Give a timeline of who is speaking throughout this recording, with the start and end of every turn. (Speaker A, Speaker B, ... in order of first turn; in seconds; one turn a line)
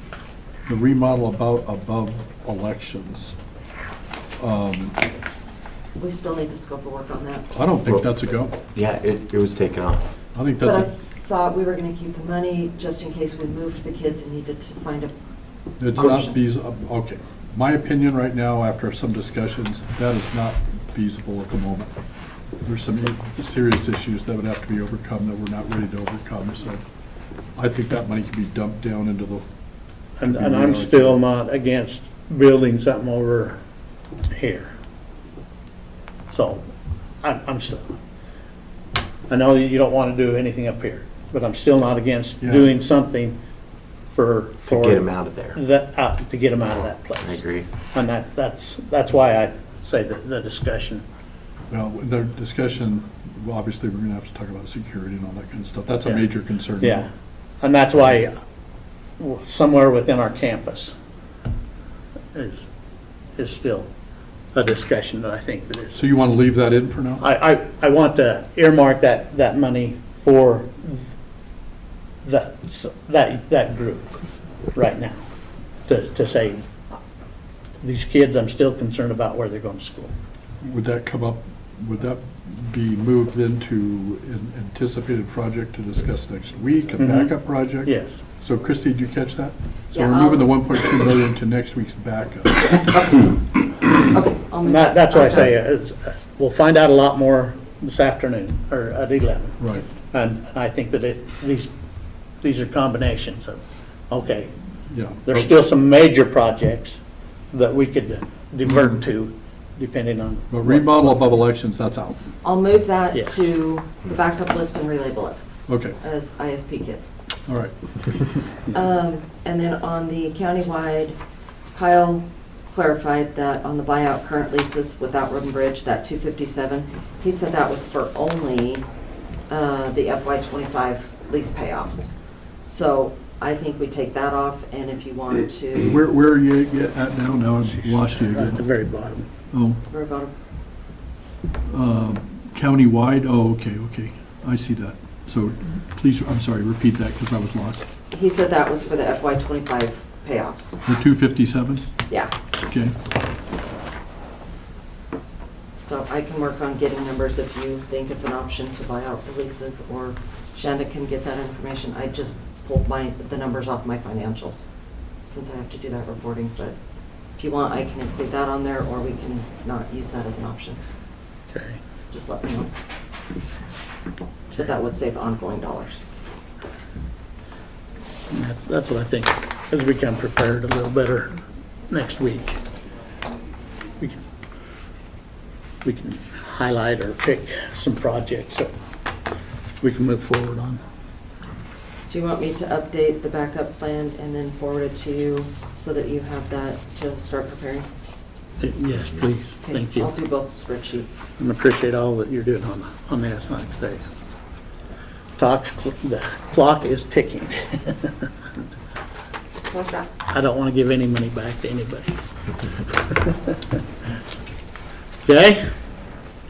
Speaker A: 0.7-3.4
Speaker A: 4.4-5.0
Speaker B: 6.0-7.5
Speaker A: 7.5-8.6
Speaker C: 8.7-10.1
Speaker A: 10.3-10.9
Speaker B: 10.6-15.1
Speaker A: 15.8-21.9
Speaker B: 15.9-16.3
Speaker A: 22.6-26.8
Speaker A: 27.6-29.4
Speaker D: 30.2-33.6
Speaker A: 30.2-31.2
Speaker D: 34.3-34.7
Speaker D: 36.3-36.6
Speaker D: 37.2-38.0
Speaker D: 39.3-43.4
Speaker A: 42.4-42.7
Speaker D: 44.1-51.0
Speaker C: 44.6-45.6
Speaker C: 47.2-47.7
Speaker A: 51.7-57.0
Speaker D: 56.8-57.1
Speaker D: 57.6-58.3
Speaker D: 59.2-60.9
Speaker D: 62.3-62.7
Speaker D: 63.4-63.9
Speaker D: 64.5-66.0
Speaker A: 65.9-67.2
Speaker D: 67.2-71.1
Speaker D: 72.2-74.2
Speaker D: 74.7-75.2
Speaker D: 75.9-77.0
Speaker D: 77.8-80.1
Speaker A: 80.6-92.8
Speaker D: 87.0-87.3
Speaker D: 87.8-88.2
Speaker B: 89.9-90.5
Speaker B: 92.9-93.4
Speaker B: 93.9-95.4
Speaker D: 94.6-101.7
Speaker A: 99.6-99.9
Speaker D: 102.4-104.5
Speaker A: 104.9-105.5
Speaker D: 105.2-107.0
Speaker D: 107.5-111.2
Speaker A: 108.7-109.0
Speaker A: 110.5-112.2
Speaker B: 112.4-115.4
Speaker D: 113.1-113.5
Speaker A: 115.7-116.0
Speaker B: 116.0-117.1
Speaker A: 117.5-117.7
Speaker B: 118.7-121.2
Speaker B: 121.7-128.8
Speaker B: 129.5-132.1
Speaker B: 132.7-136.0
Speaker A: 135.8-138.6
Speaker D: 137.6-139.3
Speaker A: 139.5-139.8
Speaker B: 139.9-140.3
Speaker A: 141.7-147.9
Speaker B: 148.1-150.8
Speaker A: 150.8-151.9
Speaker A: 152.6-152.9
Speaker B: 155.9-164.7
Speaker B: 165.2-166.8
Speaker B: 167.4-170.8
Speaker D: 171.5-171.8
Speaker B: 172.1-172.7
Speaker B: 174.5-176.0
Speaker D: 178.3-182.6
Speaker D: 185.8-188.7
Speaker D: 189.8-190.8
Speaker B: 192.1-197.9
Speaker D: 198.6-200.1
Speaker B: 199.6-201.2
Speaker D: 201.4-204.1
Speaker D: 205.4-208.3
Speaker B: 209.6-210.1
Speaker D: 210.3-212.1
Speaker D: 212.8-213.6
Speaker D: 215.2-215.7